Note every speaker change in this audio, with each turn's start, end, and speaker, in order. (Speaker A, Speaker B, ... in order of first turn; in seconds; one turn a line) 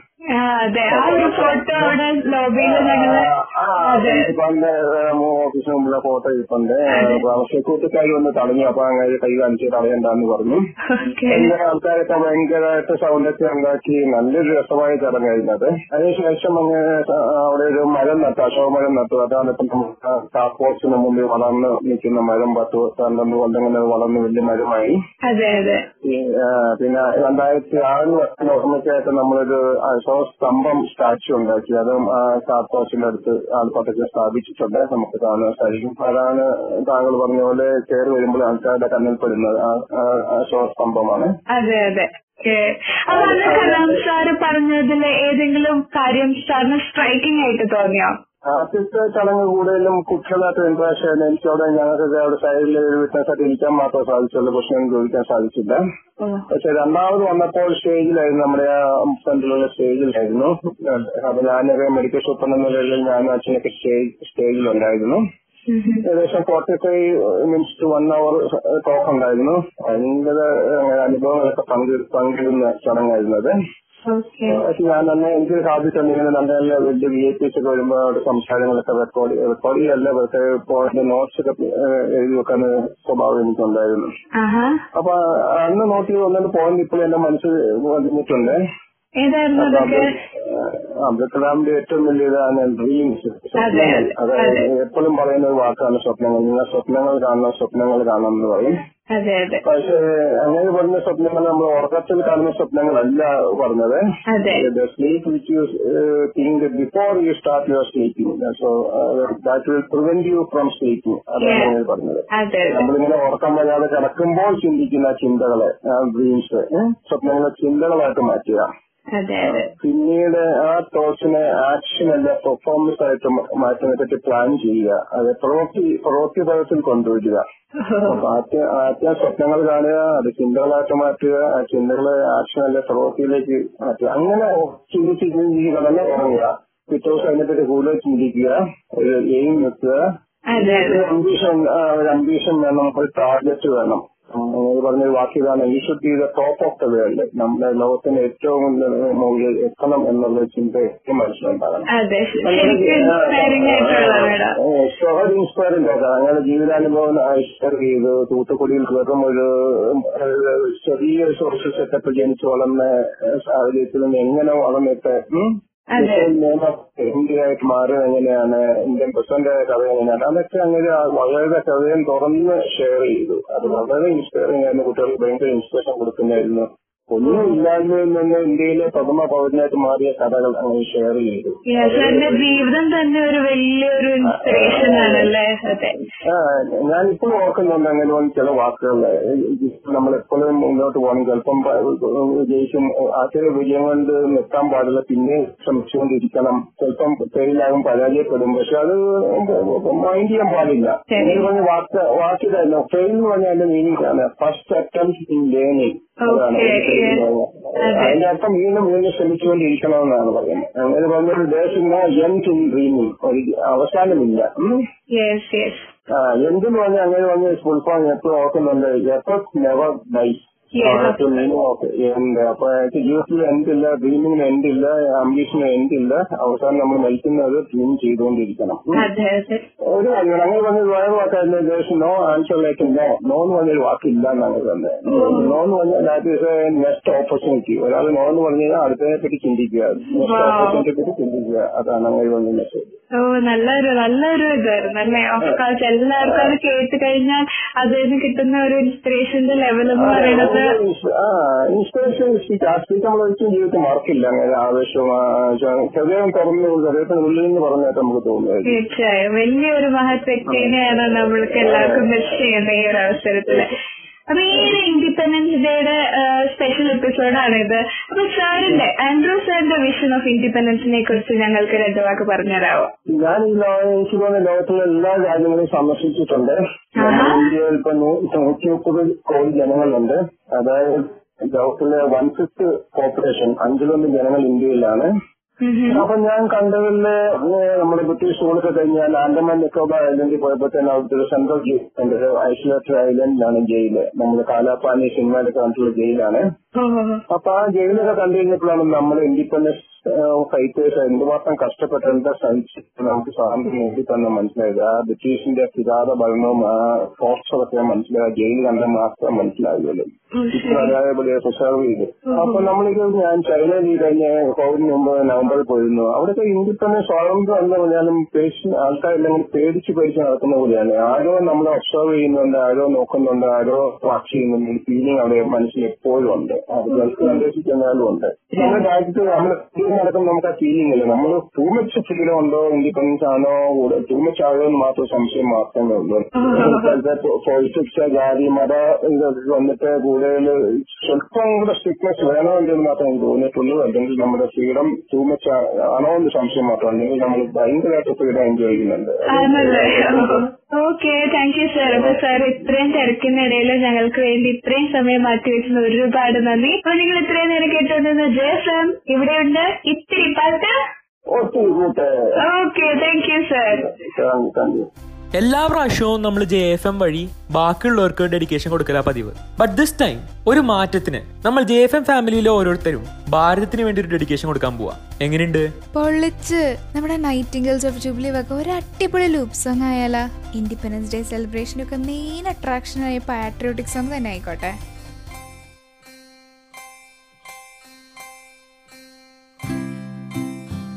Speaker A: 0.3-3.3
Speaker B: 0.9-2.0
Speaker B: 2.6-10.6
Speaker A: 3.8-4.3
Speaker A: 6.9-7.2
Speaker A: 10.9-11.5
Speaker B: 11.3-24.9
Speaker A: 25.2-25.8
Speaker B: 26.0-41.3
Speaker A: 41.5-48.1
Speaker B: 43.1-44.0
Speaker B: 48.5-55.8
Speaker A: 56.2-56.4
Speaker B: 56.5-65.2
Speaker A: 65.7-66.0
Speaker B: 66.0-73.5
Speaker A: 74.0-74.6
Speaker B: 74.5-84.1
Speaker A: 84.4-84.8
Speaker B: 84.9-88.6
Speaker A: 89.2-90.1
Speaker B: 89.6-98.7
Speaker A: 93.6-94.6
Speaker A: 99.1-99.6
Speaker B: 99.7-104.0
Speaker A: 104.3-104.7
Speaker B: 104.5-118.7
Speaker A: 111.4-111.7
Speaker A: 112.3-112.9
Speaker A: 119.1-119.7
Speaker B: 119.4-127.4
Speaker A: 127.9-128.2
Speaker B: 128.0-140.0
Speaker A: 140.5-141.1
Speaker B: 140.6-151.8
Speaker A: 151.9-154.6
Speaker B: 152.4-182.6
Speaker A: 165.9-166.3
Speaker A: 177.2-177.5
Speaker A: 181.7-186.0
Speaker B: 184.3-185.3
Speaker B: 186.2-214.8
Speaker A: 201.1-201.5
Speaker A: 206.2-207.2
Speaker A: 207.8-208.2
Speaker A: 215.1-215.9
Speaker B: 216.1-229.0
Speaker A: 220.7-221.3
Speaker A: 228.9-229.6
Speaker B: 229.9-242.9
Speaker A: 235.1-235.6
Speaker A: 240.1-240.8
Speaker A: 243.2-250.8
Speaker B: 246.2-246.5
Speaker B: 249.9-258.8
Speaker A: 258.6-263.7
Speaker B: 260.5-262.4
Speaker A: 264.3-272.9
Speaker B: 273.1-285.1
Speaker A: 277.0-277.5
Speaker A: 285.6-286.1
Speaker B: 285.9-296.4
Speaker A: 296.7-297.2
Speaker B: 297.3-350.4
Speaker A: 310.4-310.9
Speaker A: 312.3-312.7
Speaker A: 326.9-327.4
Speaker A: 328.5-328.8
Speaker A: 336.3-337.0
Speaker A: 349.3-360.7
Speaker B: 351.8-352.2
Speaker B: 361.3-362.1
Speaker A: 362.4-363.9
Speaker B: 363.8-364.9
Speaker C: 365.4-375.6
Speaker D: 375.9-384.8